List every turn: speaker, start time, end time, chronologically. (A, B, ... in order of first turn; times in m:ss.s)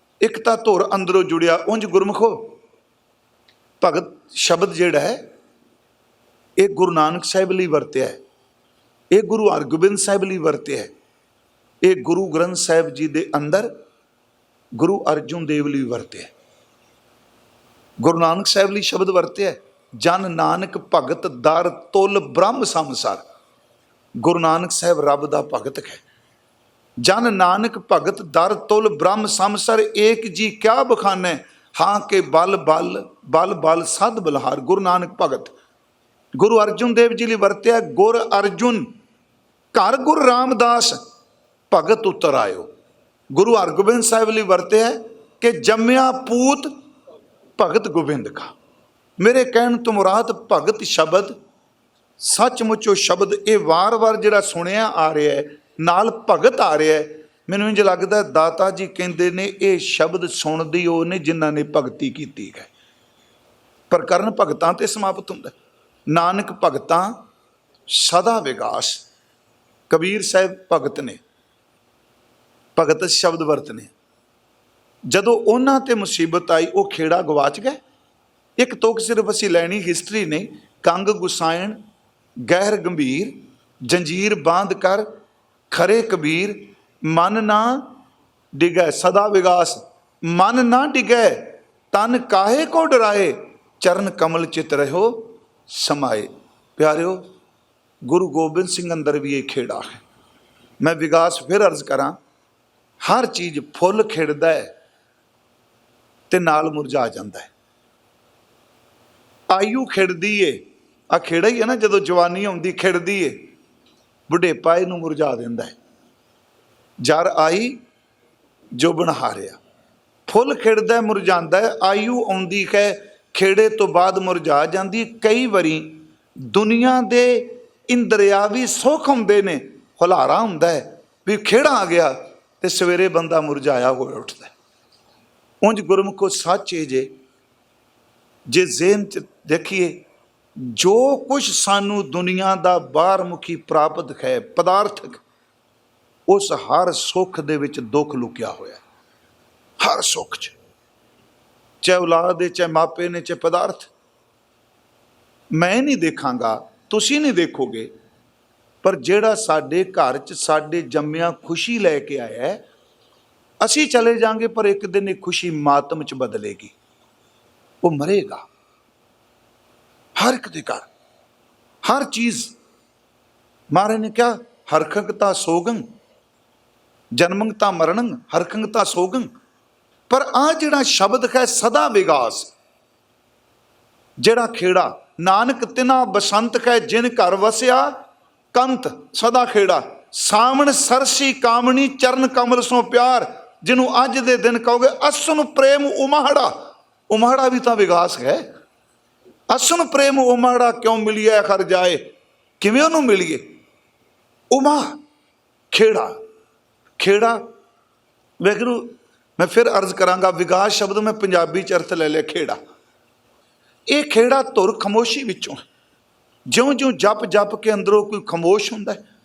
0:00.2-0:02.6 A
0:03.8-0:05.2 A
0:06.6-0:08.2 A
0:09.1-0:10.9 A
0:11.8-0:13.7 A
0:14.8-0:16.3 A
0:18.0-0:23.2 A
0:24.2-0:26.0 A
0:27.0-0:35.5 A
0:36.4-0:38.9 A
0:39.7-0:41.0 A
0:41.7-0:42.7 A
0:43.3-0:46.7 A
0:47.6-0:48.5 A
0:49.2-0:51.4 A
0:52.2-1:02.7 A
1:03.9-1:05.5 A
1:06.1-1:07.2 A
1:07.9-1:09.0 A
1:09.9-1:11.2 A
1:12.8-1:13.9 A
1:15.1-1:17.8 A
1:18.6-1:21.8 A
1:22.5-1:25.1 A
1:25.7-1:28.0 A
1:28.6-1:37.2 A
1:38.1-1:40.0 A
1:40.8-1:42.2 A
1:43.0-1:44.7 A
1:46.3-1:47.5 A
1:49.5-1:50.6 A
1:51.1-1:53.4 A
1:54.3-1:55.8 A
1:57.0-1:57.8 A
1:58.8-1:59.6 A
2:00.3-2:14.5 A
2:15.6-2:17.1 A
2:18.5-2:20.0 A
2:20.6-2:25.2 A
2:26.3-2:28.8 A
2:29.8-2:30.6 A
2:31.8-2:33.9 A
2:35.5-2:37.9 A
2:38.8-2:42.6 A
2:43.6-2:46.8 A
2:47.8-2:48.5 A
2:50.2-2:50.9 A
2:51.8-2:52.5 A
2:53.7-2:55.8 A
2:57.1-2:59.3 A
3:00.1-3:02.5 A
3:04.2-3:07.9 A
3:08.5-3:16.5 A
3:17.1-3:18.4 A
3:19.5-3:22.0 A
3:22.6-3:23.4 A
3:24.5-3:25.0 A
3:25.7-3:26.1 A
3:27.0-3:27.4 A
3:28.4-3:32.6 A
3:33.9-3:35.6 A
3:36.5-3:39.0 A